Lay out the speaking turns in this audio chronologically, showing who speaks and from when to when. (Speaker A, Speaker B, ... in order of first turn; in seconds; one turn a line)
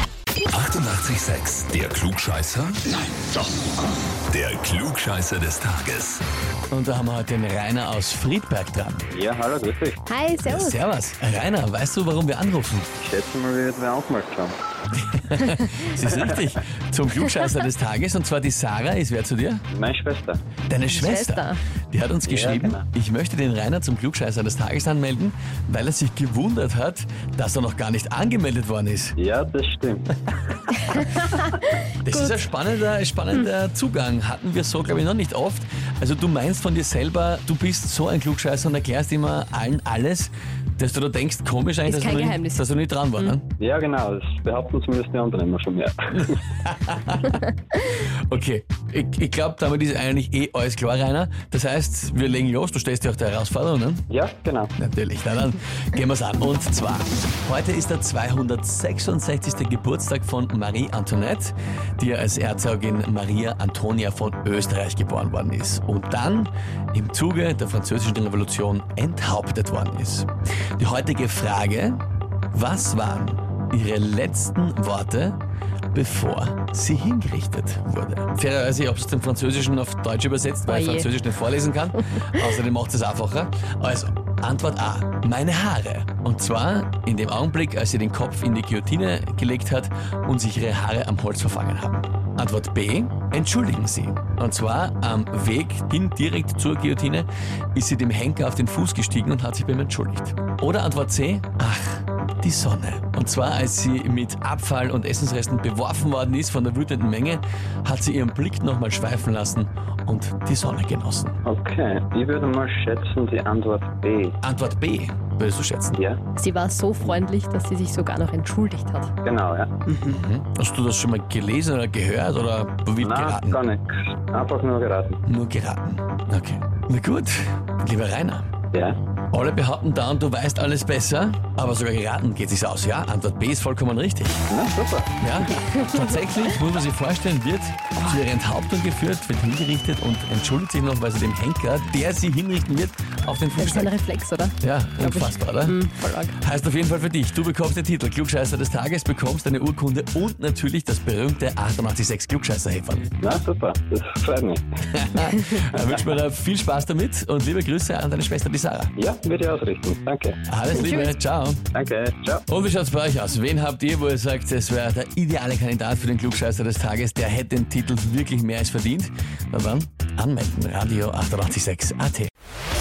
Speaker A: 0.5-3.7
Speaker A: 4.3-6.2
Speaker B: 6.7-9.1
Speaker C: 9.1-10.0
Speaker D: 10.1-10.8
Speaker B: 10.4-12.9
Speaker C: 13.0-14.6
Speaker B: 14.9-19.6
Speaker C: 16.1-16.4
Speaker C: 19.7-20.4
Speaker B: 20.7-29.2
Speaker D: 20.9-21.6
Speaker C: 22.3-22.8
Speaker C: 29.2-30.1
Speaker D: 30.9-31.4
Speaker B: 32.0-43.5
Speaker D: 32.1-32.4
Speaker D: 41.9-42.6
Speaker C: 43.6-46.4
Speaker B: 46.2-47.4
Speaker B: 47.9-54.1
Speaker C: 54.1-54.7
Speaker B: 54.8-72.0
Speaker B: 72.5-75.4
Speaker B: 75.9-111.4
Speaker D: 80.7-81.1
Speaker C: 111.5-114.4
Speaker B: 114.4-116.0
Speaker C: 115.9-116.2
Speaker D: 116.4-119.2
Speaker C: 119.2-119.7
Speaker D: 119.9-120.2
Speaker B: 120.0-123.6
Speaker C: 123.0-125.2
Speaker B: 125.3-128.5
Speaker B: 129.3-134.5
Speaker C: 134.5-135.1
Speaker B: 135.2-143.9
Speaker D: 143.6-146.4
Speaker B: 144.6-145.8
Speaker B: 146.3-153.1
Speaker C: 153.2-154.6
Speaker B: 154.9-158.9
Speaker C: 159.0-160.4
Speaker B: 160.5-161.6
Speaker D: 160.8-161.1
Speaker C: 161.7-162.4
Speaker B: 162.5-172.3